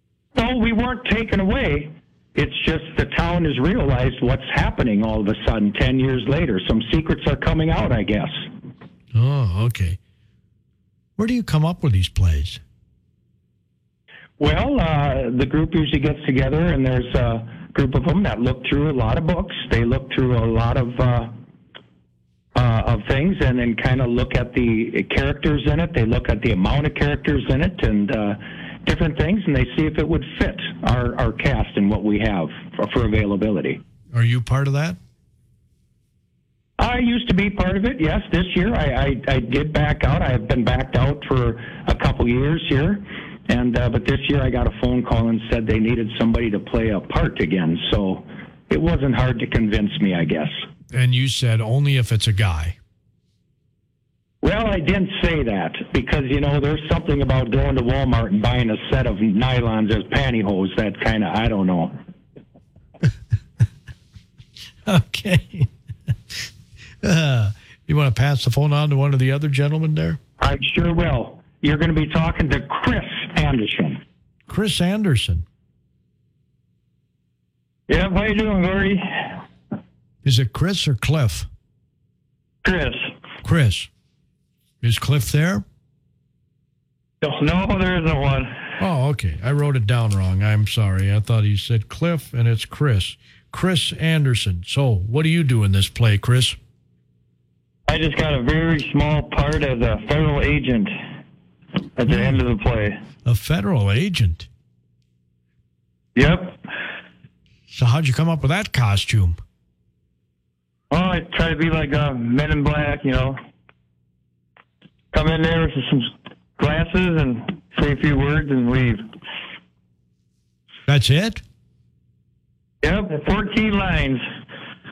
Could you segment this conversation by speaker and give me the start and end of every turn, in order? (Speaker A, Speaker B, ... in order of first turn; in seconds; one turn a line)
Speaker A: 0.3-8.5
Speaker B: 9.1-10.0
Speaker B: 11.2-12.6
Speaker A: 14.4-21.3
Speaker A: 22.5-33.8
Speaker B: 34.1-35.0
Speaker A: 36.8-50.6
Speaker B: 50.9-52.8
Speaker A: 54.4-62.0
Speaker B: 64.8-65.7
Speaker B: 67.0-70.2
Speaker A: 70.4-74.0
Speaker B: 74.5-75.4
Speaker C: 77.9-79.4
Speaker B: 80.2-81.5
Speaker C: 82.6-83.1
Speaker B: 83.4-83.9
Speaker B: 84.8-85.6
Speaker C: 87.2-88.7
Speaker B: 88.8-96.6
Speaker C: 97.9-100.9
Speaker C: 102.0-103.0
Speaker B: 103.2-104.5
Speaker C: 106.2-106.6
Speaker B: 107.7-109.4
Speaker C: 110.9-113.4
Speaker C: 115.1-119.0
Speaker B: 120.9-121.4
Speaker C: 122.8-124.2